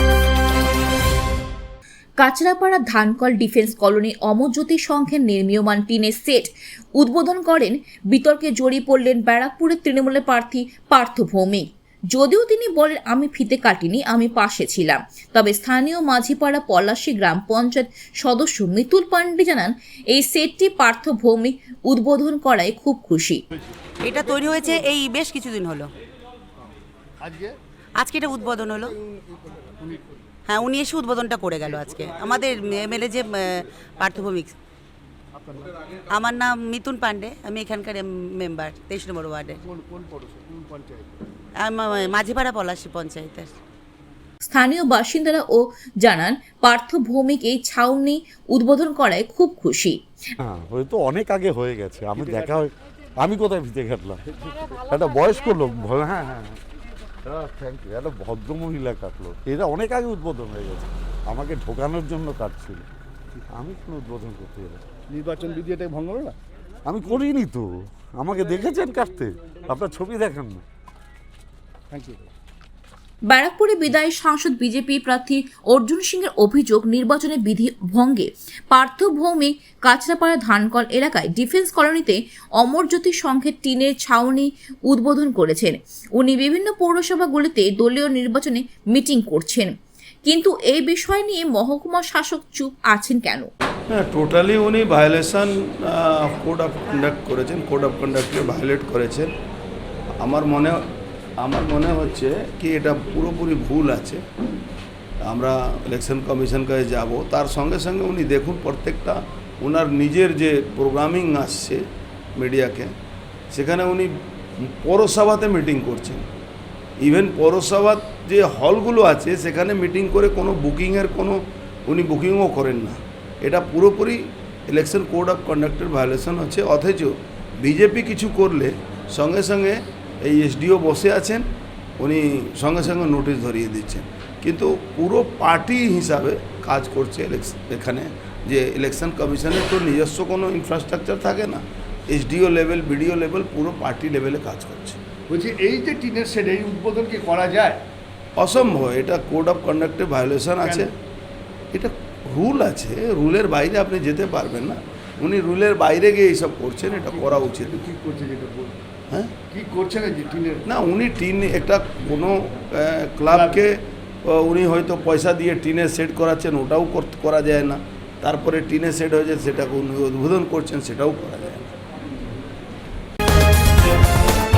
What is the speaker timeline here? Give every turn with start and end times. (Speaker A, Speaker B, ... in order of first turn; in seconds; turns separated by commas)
Speaker A: 2.2-23.4, Speaker B: 24.0-25.9, Speaker C: 27.2-27.6, Speaker B: 28.0-28.9, Speaker C: 29.6-30.2, Speaker B: 30.5-34.5, Speaker C: 35.3-35.8, Speaker B: 36.1-39.6, Speaker C: 39.6-41.2, Speaker B: 41.6-43.5, Speaker A: 44.5-50.0, Speaker D: 50.4-56.6, Speaker D: 57.2-62.9, Speaker D: 63.5-64.8, Speaker C: 65.1-66.3, Speaker D: 66.9-70.6, Speaker C: 71.9-72.3, Speaker A: 73.3-89.7, Speaker A: 90.2-93.5, Speaker E: 93.9-99.3, Speaker E: 100.2-100.8, Speaker E: 101.4-104.2, Speaker E: 105.2-111.8, Speaker E: 112.4-112.9, Speaker E: 113.5-116.3, Speaker E: 117.0-131.5, Speaker E: 132.0-145.0, Speaker C: 145.3-147.8, Speaker E: 148.4-150.9, Speaker C: 150.6-150.9, Speaker E: 151.7-157.8, Speaker C: 157.1-158.8, Speaker E: 159.1-159.4, Speaker C: 159.4-160.7, Speaker E: 160.7-171.7, Speaker C: 163.3-163.6